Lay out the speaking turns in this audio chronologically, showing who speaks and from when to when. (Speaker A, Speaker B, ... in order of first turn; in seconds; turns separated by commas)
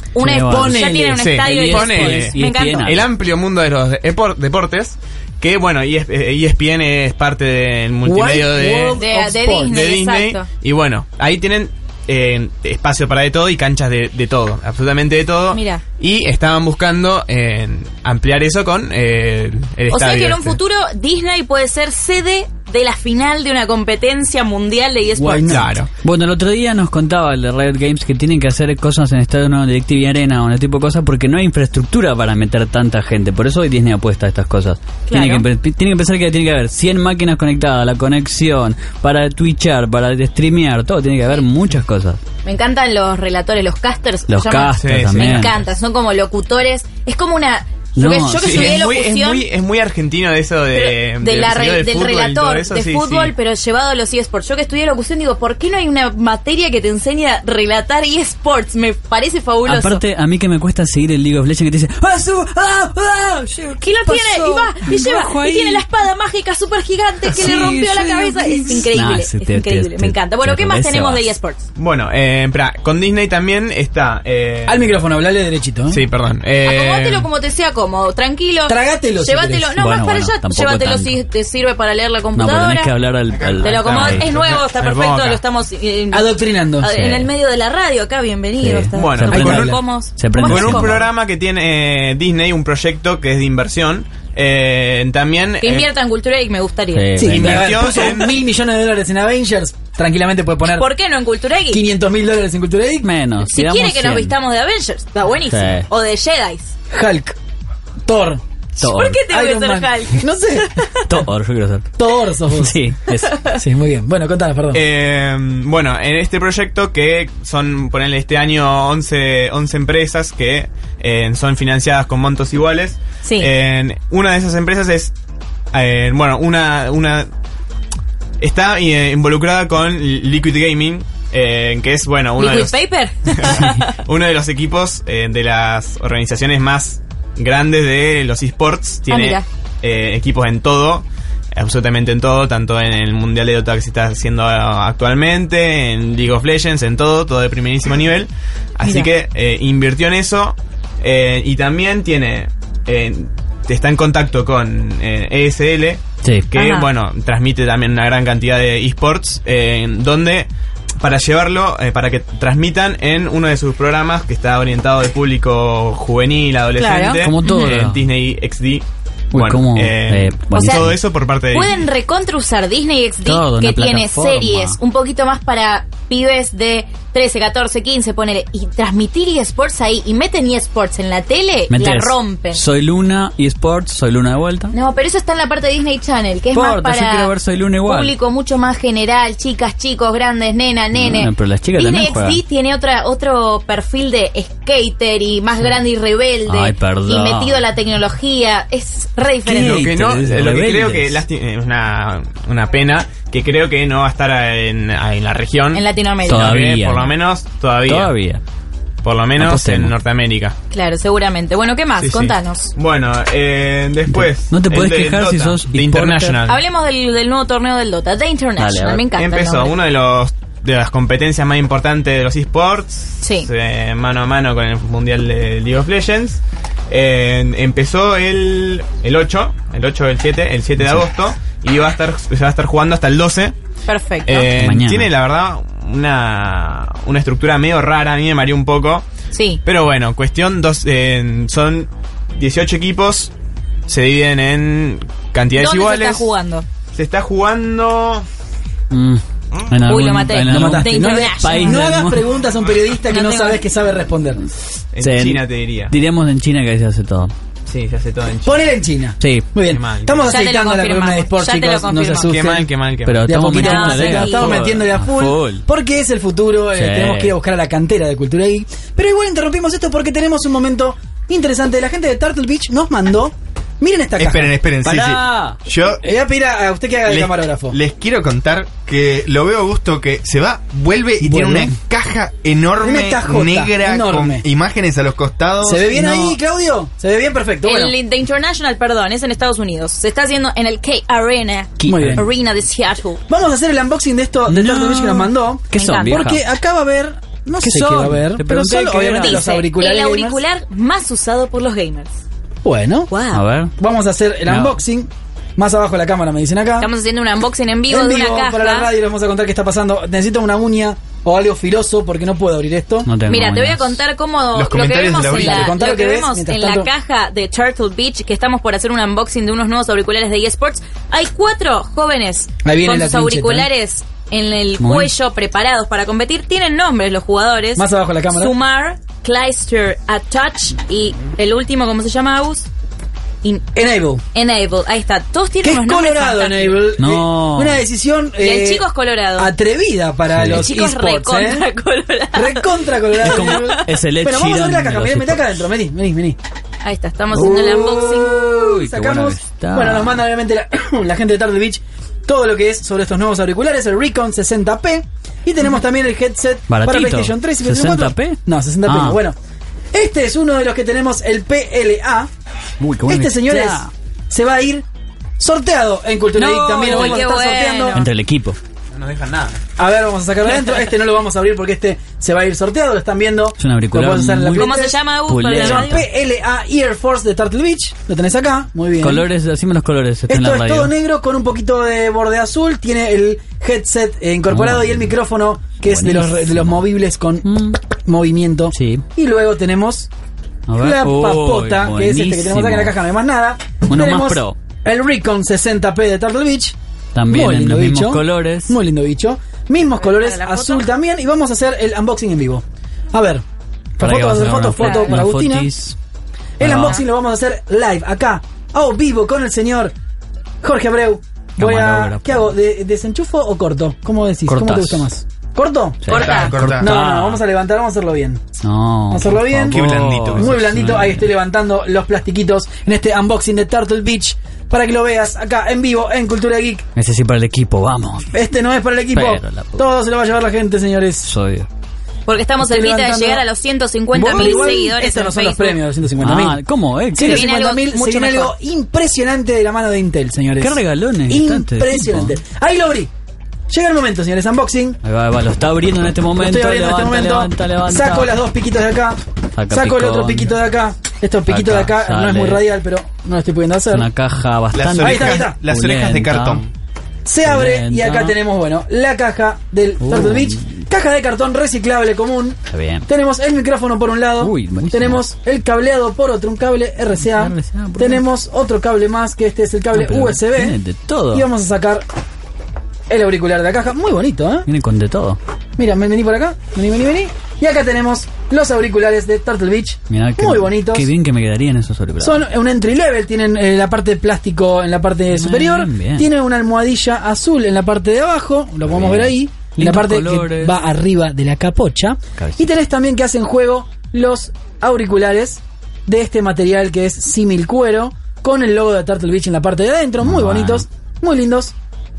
Speaker A: 0.1-3.0, Speaker B: 0.2-3.1, Speaker C: 0.4-1.3, Speaker D: 1.2-9.0, Speaker C: 8.0-9.8, Speaker A: 8.9-10.5, Speaker D: 9.7-20.6, Speaker A: 15.5-15.8, Speaker A: 19.9-25.6, Speaker C: 25.2-25.7, Speaker D: 25.5-25.9, Speaker B: 26.0-42.2, Speaker A: 35.1-35.5, Speaker A: 42.5-49.5, Speaker B: 44.3-45.5, Speaker D: 44.8-45.5, Speaker B: 48.0-48.8, Speaker D: 48.4-53.3, Speaker A: 50.7-60.0, Speaker B: 59.7-65.8, Speaker A: 63.8-71.6, Speaker B: 67.3-71.3, Speaker D: 71.8-74.9, Speaker C: 74.7-76.0, Speaker D: 75.9-77.3, Speaker A: 76.7-82.9, Speaker C: 78.7-79.7, Speaker B: 79.8-81.2, Speaker B: 82.3-84.2, Speaker D: 83.6-85.4, Speaker A: 83.6-91.0, Speaker C: 86.1-86.9, Speaker B: 86.9-87.3, Speaker B: 88.6-91.1, Speaker D: 89.0-89.8, Speaker D: 90.4-95.9, Speaker A: 95.6-97.1, Speaker B: 96.9-97.8, Speaker C: 97.2-100.9, Speaker D: 97.2-98.4, Speaker A: 100.7-101.8, Speaker C: 101.7-103.1, Speaker B: 103.0-104.3, Speaker A: 103.5-106.7, Speaker B: 105.5-105.9, Speaker C: 106.9-107.4, Speaker C: 108.0-108.4, Speaker B: 108.8-109.2, Speaker A: 108.8-111.0, Speaker C: 109.3-110.8, Speaker B: 111.1-111.9, Speaker C: 112.0-112.8, Speaker B: 112.5-113.4, Speaker A: 113.2-113.5, Speaker C: 113.6-114.8, Speaker D: 114.7-125.1, Speaker A: 123.2-123.5, Speaker D: 125.7-127.3, Speaker D: 128.4-132.8, Speaker A: 132.4-133.9, Speaker D: 133.3-160.5, Speaker A: 139.1-139.4, Speaker A: 156.5-156.9, Speaker D: 161.0-171.8, Speaker A: 166.8-167.7, Speaker B: 167.2-168.1, Speaker B: 169.3-171.0, Speaker A: 170.5-170.9, Speaker A: 171.5-182.6, Speaker B: 173.2-174.8, Speaker B: 181.7-184.7, Speaker A: 184.7-187.3, Speaker B: 186.5-188.1, Speaker A: 187.8-199.8, Speaker B: 190.9-192.4, Speaker B: 196.5-197.6, Speaker B: 199.4-201.2, Speaker D: 199.5-208.1, Speaker A: 205.7-206.6, Speaker B: 206.2-207.1, Speaker B: 207.9-208.4, Speaker D: 209.0-210.6, Speaker B: 209.4-209.9, Speaker A: 210.7-212.7, Speaker D: 212.0-216.6, Speaker B: 214.1-216.4, Speaker A: 216.4-219.8, Speaker B: 218.6-219.1, Speaker D: 219.1-233.5, Speaker A: 223.2-223.5, Speaker A: 233.9-234.5, Speaker D: 234.3-239.1, Speaker B: 234.6-235.1, Speaker A: 239.3-239.6, Speaker D: 239.7-243.3, Speaker D: 243.9-246.3, Speaker A: 245.6-246.7, Speaker D: 246.9-248.3, Speaker B: 248.9-252.2, Speaker A: 249.9-251.8, Speaker C: 250.5-254.4, Speaker A: 253.1-253.6, Speaker D: 254.9-255.9, Speaker B: 255.0-257.3, Speaker D: 257.7-258.6, Speaker C: 258.4-262.7, Speaker B: 259.2-259.5, Speaker D: 259.7-260.4, Speaker A: 260.3-262.3, Speaker D: 262.2-263.3, Speaker B: 263.1-265.6, Speaker C: 263.2-274.6, Speaker A: 263.5-264.7, Speaker B: 266.8-267.4, Speaker E: 274.2-276.0, Speaker B: 274.8-275.6, Speaker C: 276.0-277.8, Speaker E: 277.1-286.4, Speaker C: 281.2-281.7, Speaker C: 282.8-284.5, Speaker C: 285.6-287.9, Speaker A: 287.6-293.2, Speaker B: 291.8-292.2, Speaker C: 291.9-292.3, Speaker C: 293.3-300.4, Speaker B: 294.5-296.4, Speaker A: 295.7-296.2, Speaker B: 297.6-299.5, Speaker A: 299.2-302.2, Speaker C: 302.6-303.1, Speaker A: 303.1-303.4, Speaker B: 303.3-303.7, Speaker C: 303.8-306.9, Speaker B: 304.5-304.8, Speaker A: 306.8-308.9, Speaker C: 307.9-313.1, Speaker B: 313.1-314.0, Speaker A: 313.3-332.7, Speaker E: 314.5-315.8, Speaker C: 315.2-316.9, Speaker C: 322.6-323.7, Speaker B: 324.8-325.1, Speaker C: 327.8-328.6, Speaker C: 333.8-334.2, Speaker A: 334.3-336.9, Speaker C: 335.6-338.9, Speaker B: 337.0-337.9, Speaker A: 338.4-339.5, Speaker C: 339.4-341.7, Speaker B: 340.3-340.7, Speaker A: 340.5-343.8, Speaker C: 342.3-346.4, Speaker B: 343.2-345.6, Speaker A: 346.8-348.4, Speaker C: 347.3-359.4, Speaker B: 348.4-350.2, Speaker B: 356.7-359.2, Speaker C: 359.9-362.3, Speaker B: 362.8-363.9, Speaker C: 363.1-364.9, Speaker C: 365.4-368.0, Speaker A: 366.4-368.1, Speaker B: 367.9-368.6, Speaker D: 368.9-369.6, Speaker C: 369.8-375.0, Speaker B: 373.6-376.1, Speaker A: 374.6-376.0, Speaker C: 375.6-379.3, Speaker B: 379.0-380.9, Speaker C: 380.3-390.1, Speaker B: 384.5-385.1, Speaker B: 385.8-386.8, Speaker B: 387.4-387.8, Speaker B: 388.7-389.0, Speaker B: 390.7-392.9, Speaker C: 390.8-396.8, Speaker B: 393.9-394.6, Speaker B: 397.1-398.8, Speaker C: 397.3-403.4, Speaker A: 399.9-400.9, Speaker B: 404.0-406.0, Speaker C: 404.0-405.7, Speaker A: 404.8-405.2, Speaker C: 406.6-409.9, Speaker B: 406.6-407.0, Speaker A: 406.7-407.0, Speaker C: 410.6-418.4, Speaker B: 411.6-412.5, Speaker B: 414.5-415.1, Speaker B: 416.0-417.4, Speaker A: 416.1-416.6, Speaker E: 416.1-416.9, Speaker B: 418.6-421.3, Speaker C: 419.1-426.9, Speaker E: 419.7-420.8, Speaker B: 427.0-428.3, Speaker C: 428.3-431.3, Speaker B: 429.1-429.9, Speaker B: 431.2-431.7, Speaker A: 432.3-435.8, Speaker C: 432.6-433.4, Speaker C: 434.1-436.6, Speaker B: 434.2-434.7, Speaker B: 436.2-437.4, Speaker C: 437.1-443.1, Speaker A: 437.2-438.5, Speaker B: 440.6-442.4, Speaker C: 443.7-445.0, Speaker B: 445.0-448.3, Speaker C: 446.4-454.1, Speaker B: 449.6-450.5, Speaker B: 451.5-452.6, Speaker B: 453.9-456.6, Speaker E: 454.7-456.7, Speaker C: 455.0-455.6, Speaker C: 457.2-470.8, Speaker B: 457.4-458.4, Speaker B: 460.0-460.8, Speaker B: 462.7-463.1, Speaker B: 464.4-465.2, Speaker B: 467.2-468.2, Speaker B: 469.9-471.5, Speaker C: 471.3-472.1, Speaker C: 473.1-474.7, Speaker B: 474.7-475.4, Speaker C: 475.8-481.1, Speaker B: 480.1-482.4, Speaker C: 482.2-501.7, Speaker B: 485.3-486.3, Speaker B: 488.9-490.8, Speaker B: 492.4-492.7, Speaker B: 500.2-500.9